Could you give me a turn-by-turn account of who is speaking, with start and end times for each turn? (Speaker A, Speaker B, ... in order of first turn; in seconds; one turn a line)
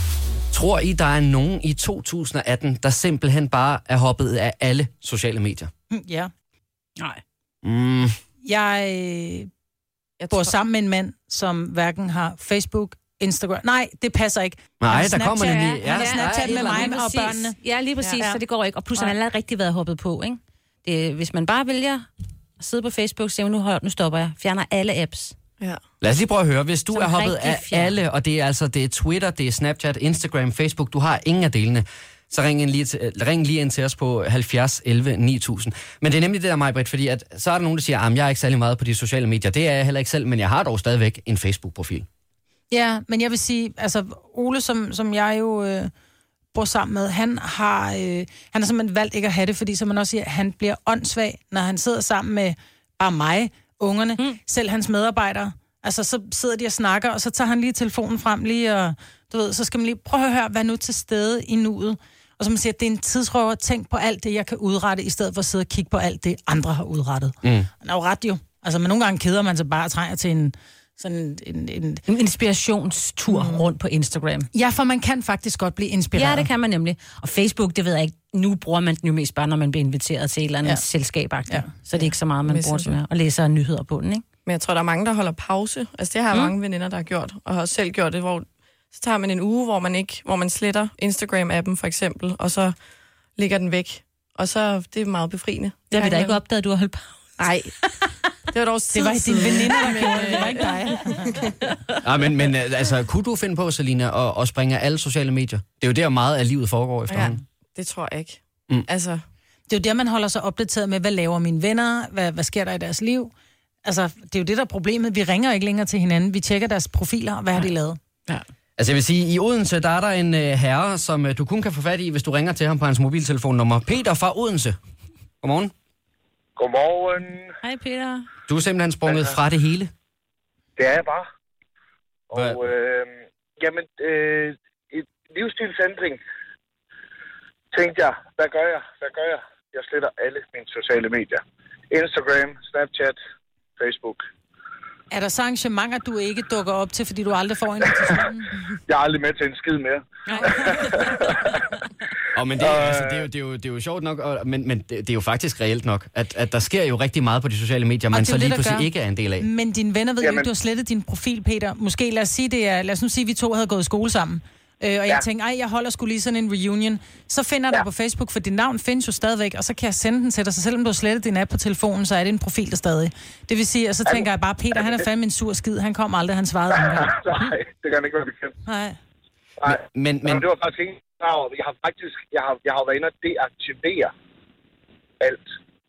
Speaker A: 0.5-5.7
Speaker B: 5.9-6.3
Speaker A: 7.6-8.2
Speaker B: 8.4-9.5
Speaker C: 10.2-10.6
Speaker B: 10.3-17.6
Speaker A: 14.8-16.9
Speaker D: 15.8-22.1
Speaker B: 18.1-18.4
Speaker D: 22.6-25.3
Speaker A: 26.0-42.0
Speaker D: 26.9-28.0
Speaker B: 42.7-45.9
Speaker B: 46.5-72.0
Speaker D: 72.1-74.5
Speaker B: 73.3-73.5
Speaker C: 73.3-73.6
Speaker B: 74.5-76.5
Speaker D: 76.1-84.2
Speaker C: 82.0-83.0
Speaker C: 84.4-92.8
Speaker C: 93.3-96.4
Speaker D: 95.9-97.3
Speaker C: 97.4-97.8
Speaker C: 98.5-101.5
Speaker B: 98.9-101.4
Speaker A: 102.0-107.4
Speaker C: 107.1-109.2
Speaker B: 109.7-113.3
Speaker B: 113.8-118.0
Speaker A: 118.8-124.8
Speaker A: 125.4-125.7
Speaker E: 126.5-127.5
Speaker D: 127.6-128.3
Speaker A: 128.5-129.9
Speaker E: 130.8-131.2
Speaker E: 132.3-136.2
Speaker E: 137.7-143.2
Speaker E: 143.8-144.2
Speaker B: 145.1-148.5
Speaker E: 148.9-151.5
Speaker B: 150.3-150.7
Speaker D: 150.4-151.0
Speaker A: 152.3-159.5
Speaker E: 152.6-153.2
Speaker B: 158.1-177.1
Speaker E: 160.2-160.5
Speaker E: 174.1-175.0
Speaker E: 176.9-178.5
Speaker B: 178.6-179.0
Speaker E: 179.6-184.1
Speaker A: 179.7-180.4